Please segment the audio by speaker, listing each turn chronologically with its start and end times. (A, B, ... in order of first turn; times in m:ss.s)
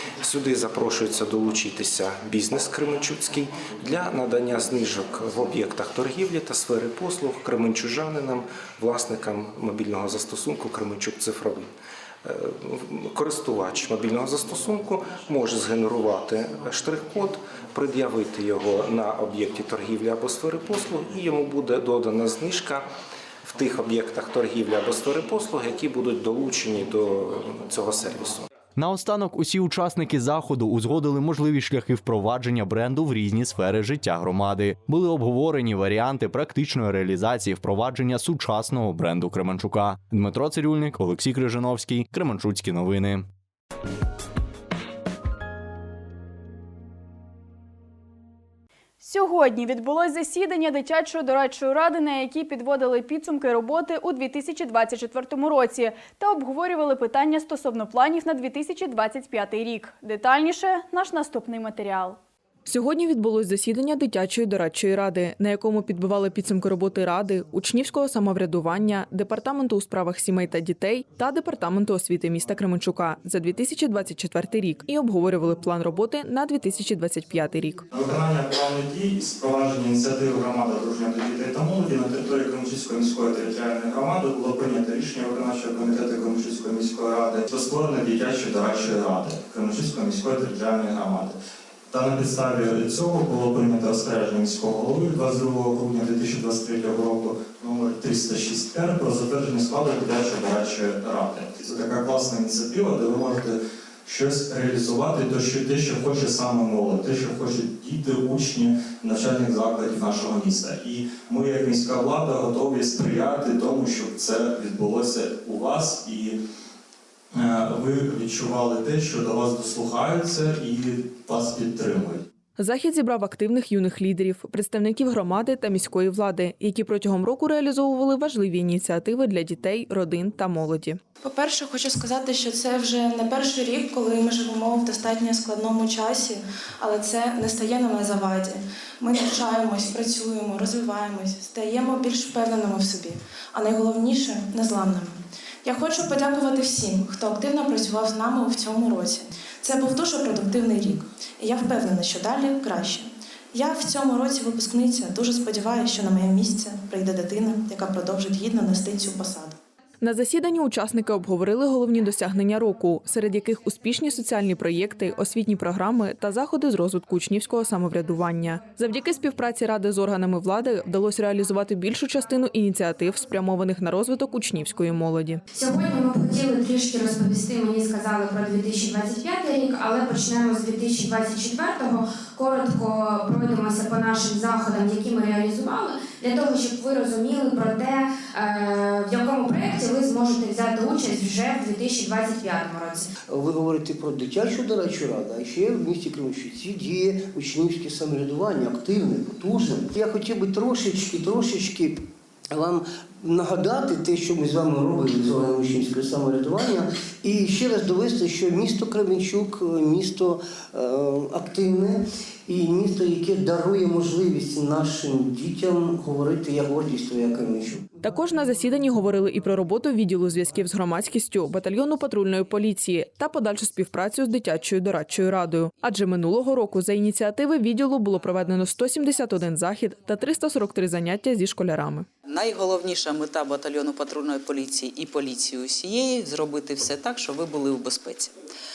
0:00.2-0:11.7 A
0:12.2-0:22.9 A
0:23.4-0:28.5 A
0:28.8-0:43.2 B
0:49.0-1:02.2 C
1:02.7-1:17.8 D
1:17.9-1:31.4 E
1:31.9-1:56.4 E
1:57.3-2:02.2 E
2:02.6-2:11.0 D
2:11.3-2:25.1 F
2:25.7-2:33.0 F
2:33.6-2:39.5 F
2:40.0-2:55.4 D
2:55.5-3:13.1 G
3:13.3-3:37.8 H
3:38.0-3:52.1 D
3:52.3-3:58.3 I